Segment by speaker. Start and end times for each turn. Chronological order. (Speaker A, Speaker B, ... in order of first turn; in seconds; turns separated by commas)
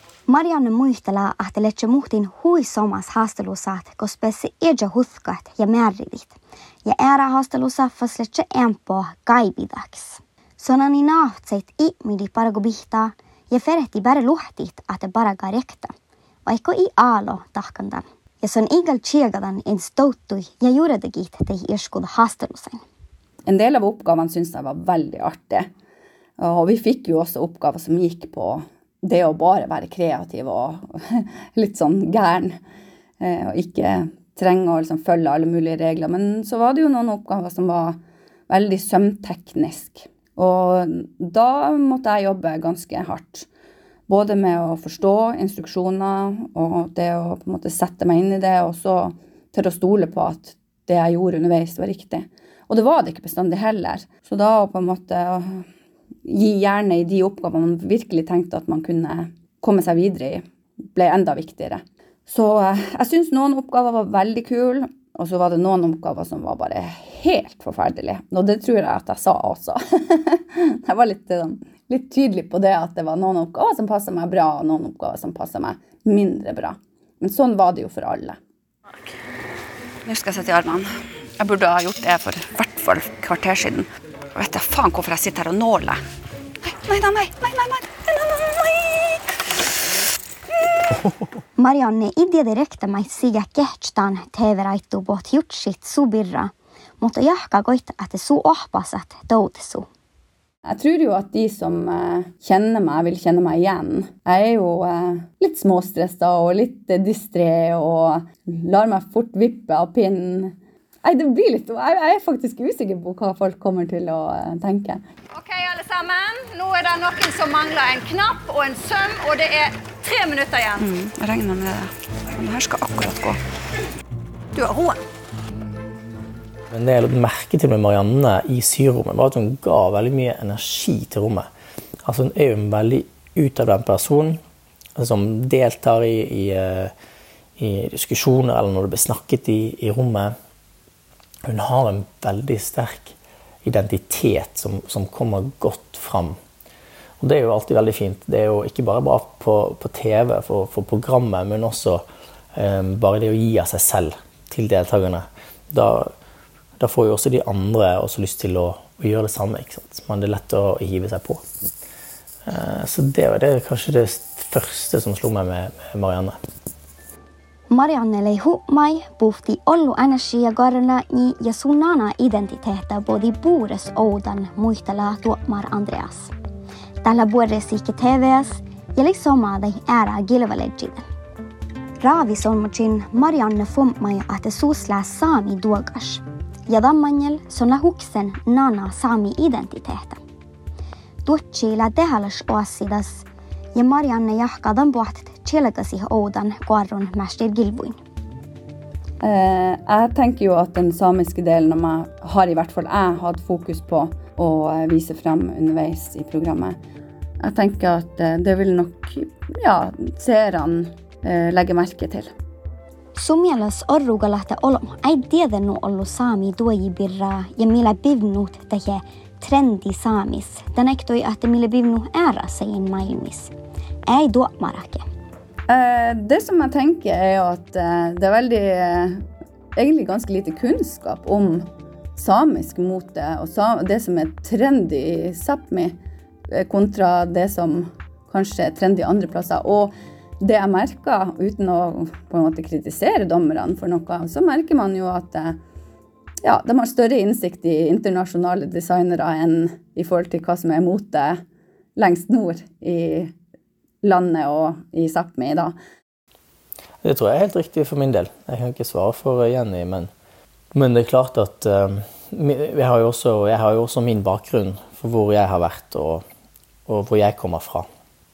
Speaker A: 0.3-15.9, Speaker A: 16.5-22.8, Speaker B: 23.5-25.7, Speaker B: 26.4-32.6, Speaker B: 33.2-38.0, Speaker B: 38.5-43.5, Speaker B: 44.1-55.7, Speaker B: 56.2-60.4, Speaker B: 60.9-78.4, Speaker B: 80.1-86.0, Speaker B: 86.6-89.6, Speaker A: 91.6-99.9, Speaker B: 100.7-115.0, Speaker C: 115.3-120.8, Speaker B: 120.8-123.4, Speaker C: 124.5-125.0, Speaker D: 126.7-131.5, Speaker D: 132.1-134.4, Speaker D: 135.0-136.9, Speaker D: 137.6-140.3, Speaker D: 141.5-146.4, Speaker D: 147.2-156.1, Speaker D: 156.8-161.4, Speaker D: 162.5-166.4, Speaker A: 167.7-176.3, Speaker A: 177.0-181.0, Speaker A: 182.0-190.2, Speaker A: 191.2-198.0, Speaker B: 199.2-206.8, Speaker B: 207.4-212.3, Speaker A: 213.1-223.5, Speaker A: 224.1-225.0, Speaker B: 225.7-229.2, Speaker B: 229.8-236.0, Speaker B: 236.5-245.6, Speaker B: 246.4-251.4, Speaker B: 252.0-253.3, Speaker B: 254.0-255.7, Speaker D: 257.0-260.1, Speaker D: 260.7-266.2, Speaker D: 266.9-267.9